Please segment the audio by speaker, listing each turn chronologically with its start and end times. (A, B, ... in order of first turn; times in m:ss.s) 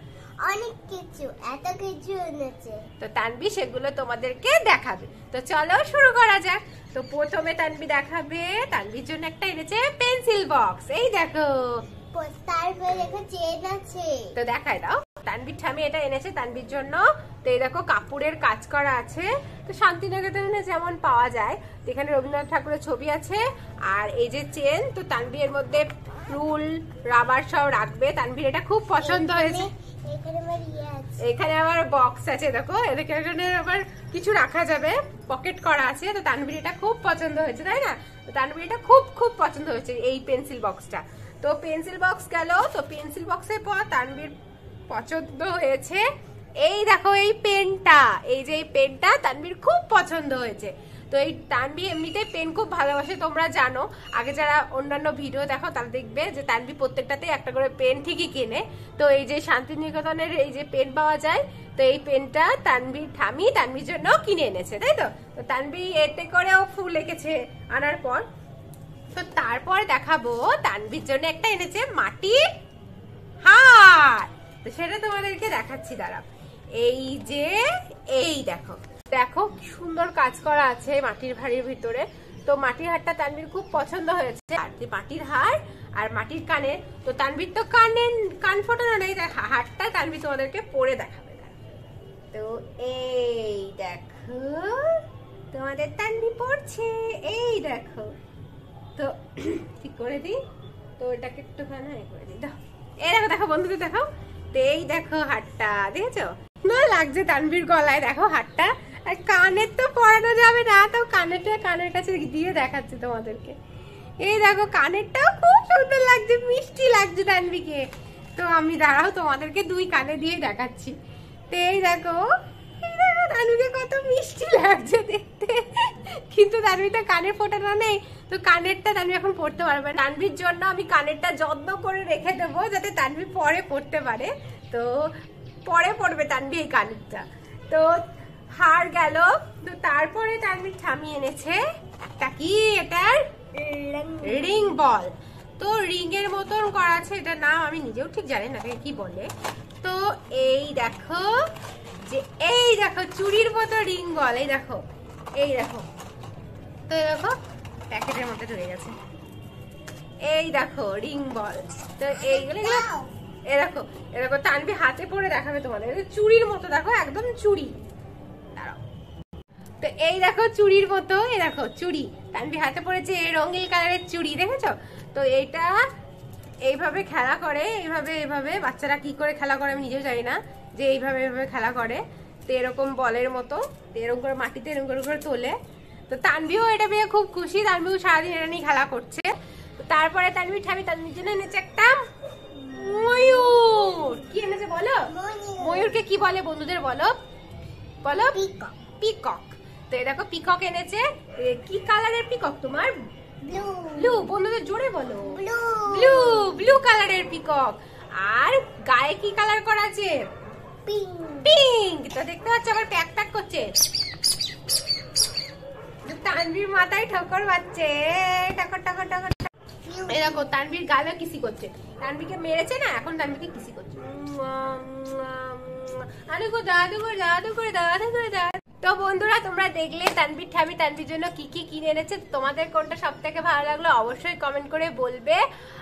0:00.4-0:02.9 A
0:03.0-0:11.8 B
0:12.1-0:14.3 A
0:14.4-0:29.7 B
0:29.0-0:31.2 A
0:31.2-0:44.3 B
0:44.9-0:46.0 B
0:46.6-1:08.2 B
1:09.1-1:12.4 B
1:13.4-1:16.3 B
1:16.8-1:31.6 B
1:32.3-1:38.1 B
1:39.0-1:40.4 B
1:41.0-1:53.6 B
1:54.2-2:01.0 B
2:01.5-2:02.2 B
2:02.8-2:15.1 B
2:15.7-2:21.6 B
2:22.2-2:23.3 B
2:23.6-2:24.8 A
2:24.2-2:29.3 B
2:29.8-2:31.4 B
2:32.1-2:34.8 B
2:35.4-2:35.9 B
2:36.9-2:37.4 B
2:37.9-2:39.0 B
2:40.2-2:42.9 B
2:42.2-2:43.1 A
2:43.5-2:47.8 B
2:48.6-2:48.8 B
2:49.8-2:55.7 B
2:56.6-3:05.6 B
3:06.1-3:12.0 B
3:12.7-3:15.1 B
3:12.7-3:14.1 A
3:15.1-3:16.0 A
3:15.6-3:17.2 B
3:18.0-3:18.4 B
3:18.1-3:18.8 A
3:19.0-3:22.9 B
3:23.4-3:24.3 A
3:24.0-3:30.2 B
3:25.2-3:26.7 A
3:30.8-3:31.6 A
3:31.4-3:33.7 B
3:36.0-3:39.5 B
3:39.8-3:40.5 A
3:40.1-3:55.4 B